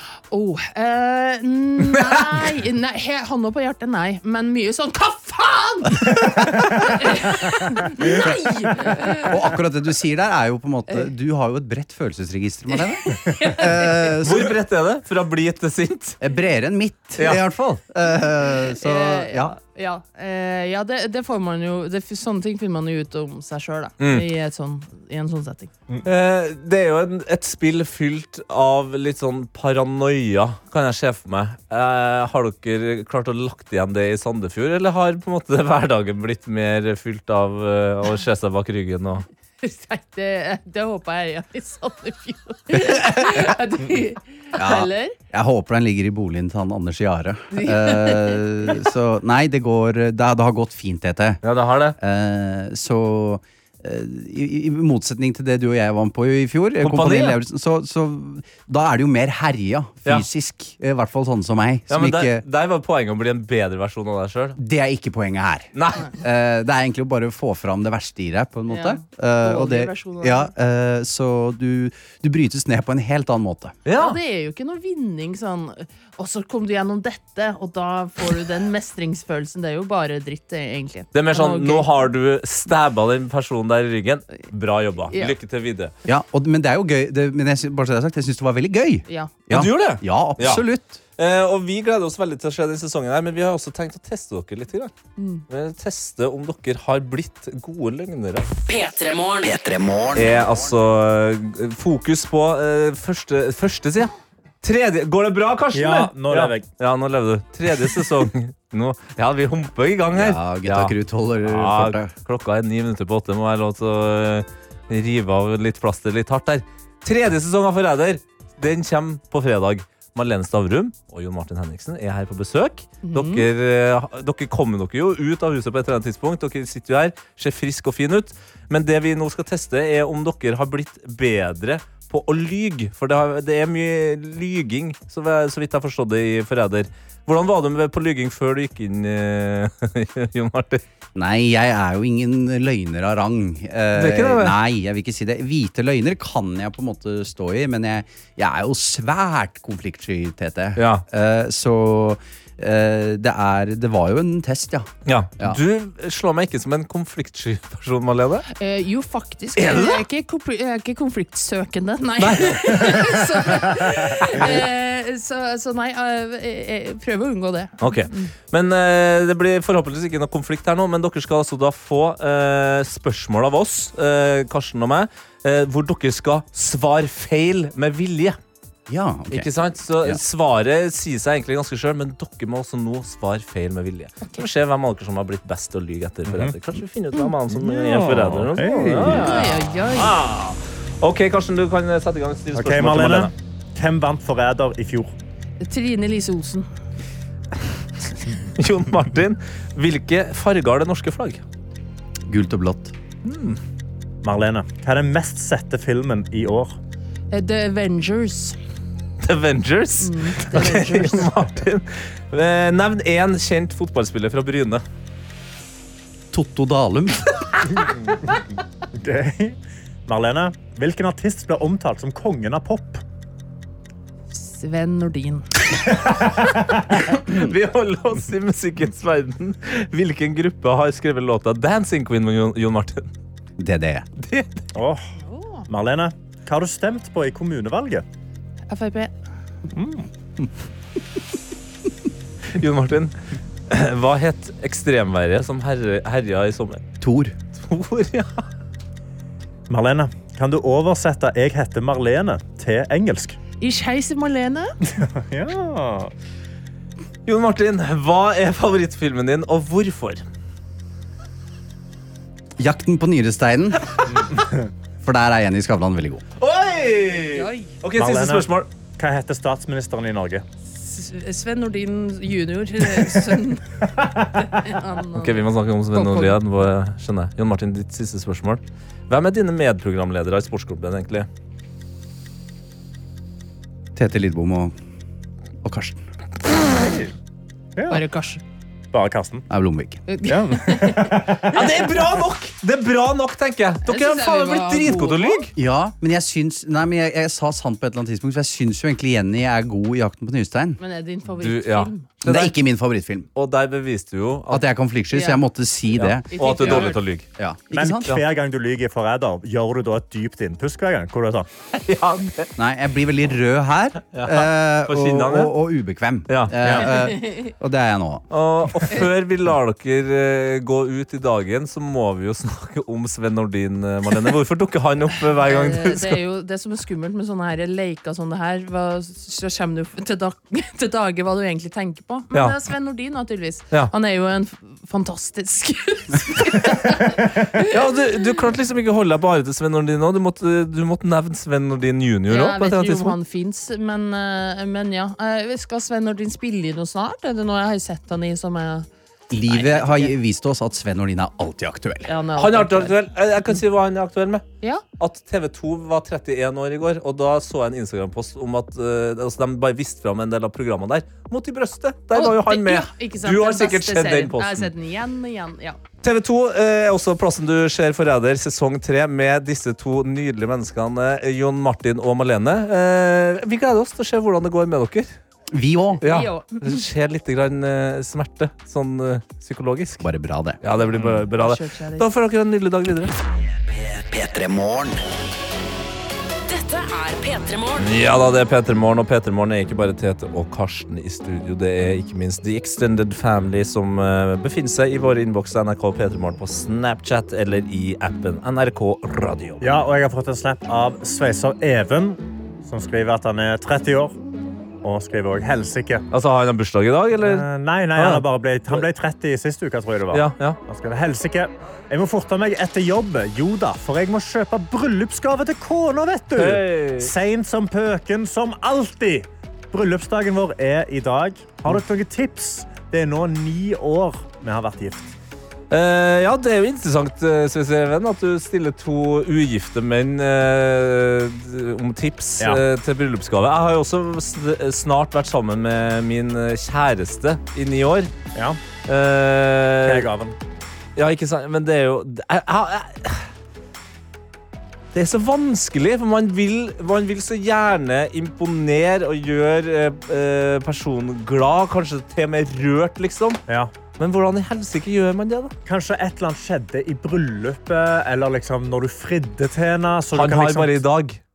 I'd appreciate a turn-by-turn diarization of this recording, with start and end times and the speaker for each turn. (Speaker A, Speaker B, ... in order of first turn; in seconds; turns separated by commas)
Speaker A: 0.3-9.5, Speaker B: 6.3-7.0, Speaker C: 9.3-14.5, Speaker A: 12.7-14.1, Speaker D: 14.2-16.2, Speaker C: 16.2-19.6, Speaker A: 18.7-25.7, Speaker D: 24.0-24.3, Speaker D: 26.0-39.3, Speaker A: 39.6-45.2, Speaker C: 44.6-51.4, Speaker A: 47.5-48.8, Speaker D: 51.4-52.0, Speaker C: 52.0-62.4, Speaker D: 56.8-57.4, Speaker D: 61.9-64.6, Speaker C: 64.6-73.8, Speaker D: 65.7-66.1, Speaker A: 68.7-70.5, Speaker D: 73.9-74.2, Speaker A: 73.9-81.9, Speaker D: 81.1-85.9, Speaker A: 85.1-85.4, Speaker C: 86.1-91.0, Speaker A: 89.1-89.4, Speaker D: 89.5-90.7, Speaker D: 91.2-94.9, Speaker A: 95.2-95.5, Speaker D: 95.5-98.5, Speaker E: 98.7-99.5, Speaker F: 99.4-100.7, Speaker D: 100.2-140.8, Speaker B: 105.7-106.7, Speaker C: 110.1-112.1, Speaker A: 123.0-123.5, Speaker C: 141.2-154.9, Speaker D: 143.9-144.6, Speaker D: 150.8-151.1, Speaker D: 155.1-158.4, Speaker A: 158.5-168.3, Speaker D: 159.6-160.0, Speaker D: 162.2-162.9, Speaker B: 162.5-163.1, Speaker D: 164.2-164.5, Speaker D: 167.8-178.4, Speaker C: 178.9-180.2, Speaker D: 179.3-193.3, Speaker B: 186.3-186.6, Speaker B: 187.5-189.4, Speaker A: 189.0-190.2, Speaker B: 192.5-195.1, Speaker A: 195.6-196.7, Speaker D: 198.6-201.4, Speaker C: 202.3-202.9, Speaker D: 203.2-203.6, Speaker B: 204.2-206.8, Speaker A: 207.3-208.6, Speaker D: 209.2-214.8, Speaker A: 210.0-211.4, Speaker C: 216.3-217.3, Speaker B: 217.8-218.4, Speaker B: 218.9-223.0, Speaker A: 224.3-225.6, Speaker D: 227.1-233.1, Speaker C: 233.6-234.1, Speaker D: 234.2-234.6, Speaker B: 234.7-235.0, Speaker A: 235.2-235.7, Speaker B: 235.7-238.1, Speaker A: 238.7-239.1, Speaker B: 239.7-240.1, Speaker D: 242.6-243.2, Speaker D: 243.7-246.8, Speaker C: 247.0-247.4, Speaker D: 247.6-248.4, Speaker B: 249.7-253.4, Speaker A: 253.6-254.7, Speaker B: 254.9-256.1, Speaker D: 257.3-260.2, Speaker C: 262.6-264.0, Speaker B: 264.1-264.7, Speaker C: 265.0-266.2, Speaker D: 266.4-268.7, Speaker A: 267.3-267.7, Speaker B: 267.9-270.4, Speaker A: 270.6-276.4, Speaker D: 275.1-281.3, Speaker C: 284.0-284.7, Speaker C: 285.6-286.1, Speaker B: 287.8-288.0, Speaker A: 287.9-288.4, Speaker B: 288.9-289.5, Speaker C: 289.5-290.0, Speaker A: 290.1-291.1, Speaker B: 290.3-291.6, Speaker D: 291.5-295.5, Speaker A: 293.9-295.4, Speaker C: 295.6-300.8, Speaker A: 300.8-302.2, Speaker D: 301.4-302.5, Speaker C: 302.2-303.3, Speaker D: 303.4-304.7, Speaker C: 304.5-308.2, Speaker A: 305.1-305.5, Speaker D: 305.9-307.3, Speaker A: 306.3-307.2, Speaker B: 307.7-311.5, Speaker D: 311.7-312.5, Speaker C: 312.6-318.2, Speaker D: 314.1-315.5, Speaker D: 316.3-316.6, Speaker A: 316.9-317.5, Speaker D: 318.3-326.2, Speaker A: 325.4-337.8, Speaker D: 337.7-343.2, Speaker A: 342.3-348.9, Speaker C: 349.3-352.1, Speaker A: 349.5-350.1, Speaker A: 352.1-353.0, Speaker D: 352.4-354.4, Speaker D: 355.0-364.7, Speaker A: 362.1-365.8, Speaker D: 366.0-375.2, Speaker C: 375.5-376.0, Speaker D: 376.0-380.1, Speaker A: 376.1-376.9, Speaker C: 380.0-380.6, Speaker D: 380.6-383.2, Speaker A: 381.0-382.1, Speaker F: 383.7-385.0, Speaker E: 386.5-387.9, Speaker D: 387.8-399.7, Speaker B: 399.6-404.2, Speaker B: 404.8-406.1, Speaker D: 406.1-408.9, Speaker B: 407.2-425.1, Speaker D: 410.1-410.6, Speaker D: 416.4-417.1, Speaker D: 425.7-438.1, Speaker B: 438.3-438.6, Speaker D: 438.9-440.1, Speaker B: 439.9-440.4, Speaker D: 441.0-443.3, Speaker D: 444.9-453.4, Speaker B: 453.5-453.7, Speaker D: 454.0-455.5, Speaker B: 455.6-460.8, Speaker D: 460.1-461.2